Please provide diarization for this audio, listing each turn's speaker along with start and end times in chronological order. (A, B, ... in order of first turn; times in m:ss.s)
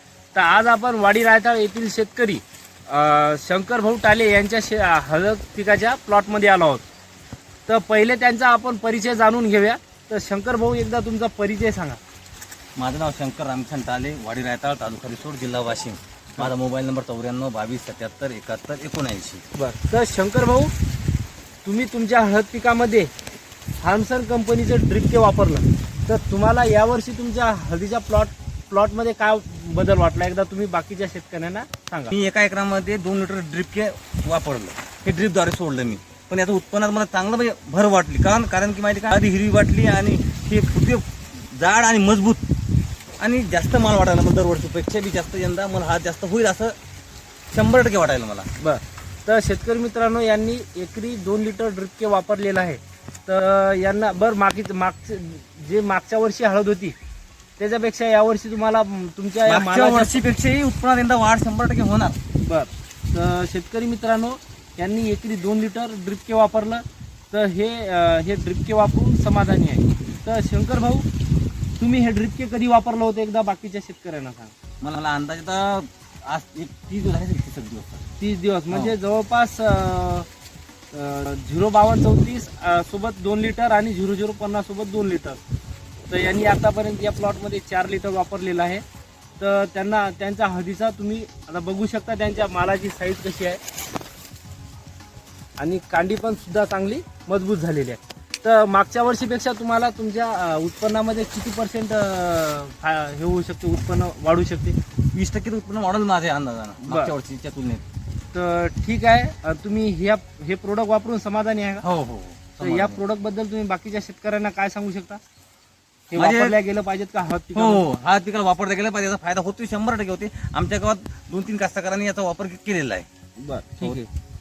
0:00.3-0:06.8 A
0:07.7-0:12.0 A
0:12.8-0:19.4 B
0:19.5-0:20.7 A
0:21.6-0:23.1 A
0:23.8-0:32.1 A
0:32.1-0:42.4 B
0:43.2-0:46.8 B
0:47.5-0:48.5 B
0:48.6-0:56.9 A
0:57.6-1:00.2 A
0:59.5-1:02.2 B
1:02.4-1:11.1 A
1:11.8-1:14.5 A
1:14.8-1:18.0 B
1:18.2-1:20.3 A
1:20.9-1:25.4 A
1:26.1-1:28.8 A
1:29.4-1:33.6 A
1:35.6-1:44.8 A
1:45.1-1:47.8 B
1:46.9-1:47.1 A
1:48.3-1:51.8 A
1:51.8-1:53.0 B
1:52.6-1:55.2 A
1:56.1-1:57.9 A
1:56.2-1:56.6 B
1:57.5-2:03.1 B
2:03.4-2:04.1 A